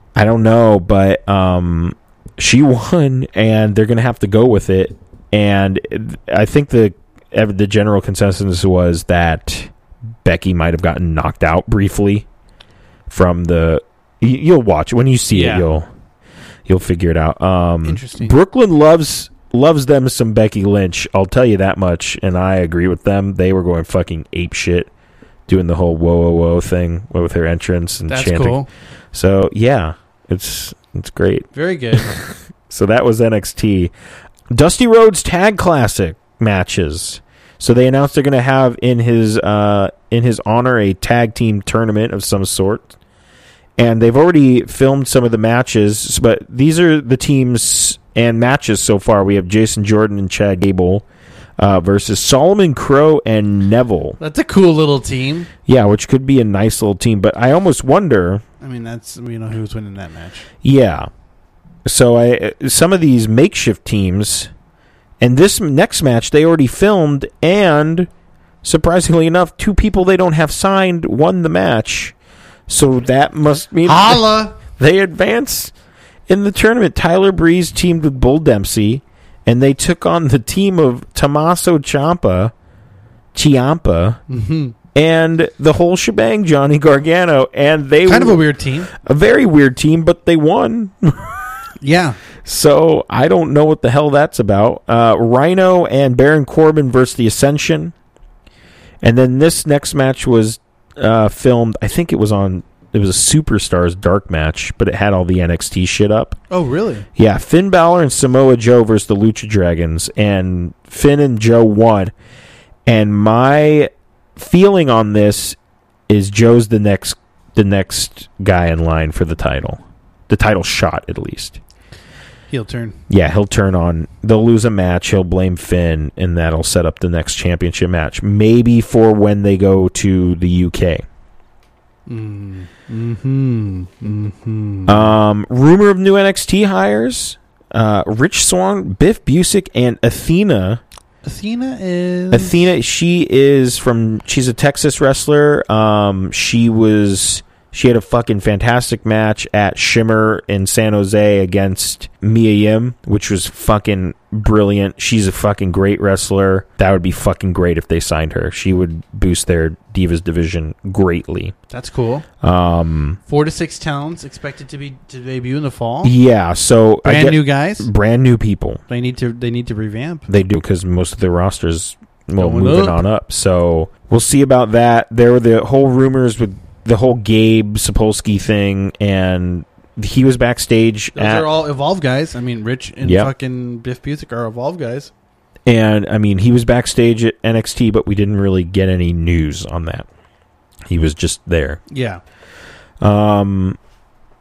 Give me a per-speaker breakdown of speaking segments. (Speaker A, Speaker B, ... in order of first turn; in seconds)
Speaker A: 0.1-9.7, 10.2-12.3, 13.1-15.9, 16.6-24.9, 25.5-33.9, 34.5-42.9, 43.8-51.0, 51.6-54.2, 55.6-58.4, 60.6-61.1, 61.9-64.5, 65.2-68.1, 68.6-72.1, 72.7-75.7, 76.3-82.5, 83.3-84.2, 84.9-91.6, 92.4-97.9, 99.0-106.4, 107.2-112.1, 112.9-115.6, 116.1-121.6, 123.1-131.0, 134.9-140.8, 142.3-161.5, 162.4-163.2, 166.0-168.8, 170.3-181.5, 183.0-183.3, 185.7-190.1, 190.9-191.8, 193.0-193.8
Speaker B: 15.3-15.7, 17.8-18.3, 28.1-28.7, 31.5-32.2, 54.2-55.5, 58.6-60.5, 73.8-74.6, 84.3-84.7, 88.0-88.9, 91.8-92.2, 106.5-107.0, 122.5-123.0, 132.1-135.1, 141.2-142.7, 161.7-162.2, 163.3-166.1, 167.0-167.9, 168.9-170.3, 172.4-173.0, 181.1-185.1, 191.9-192.2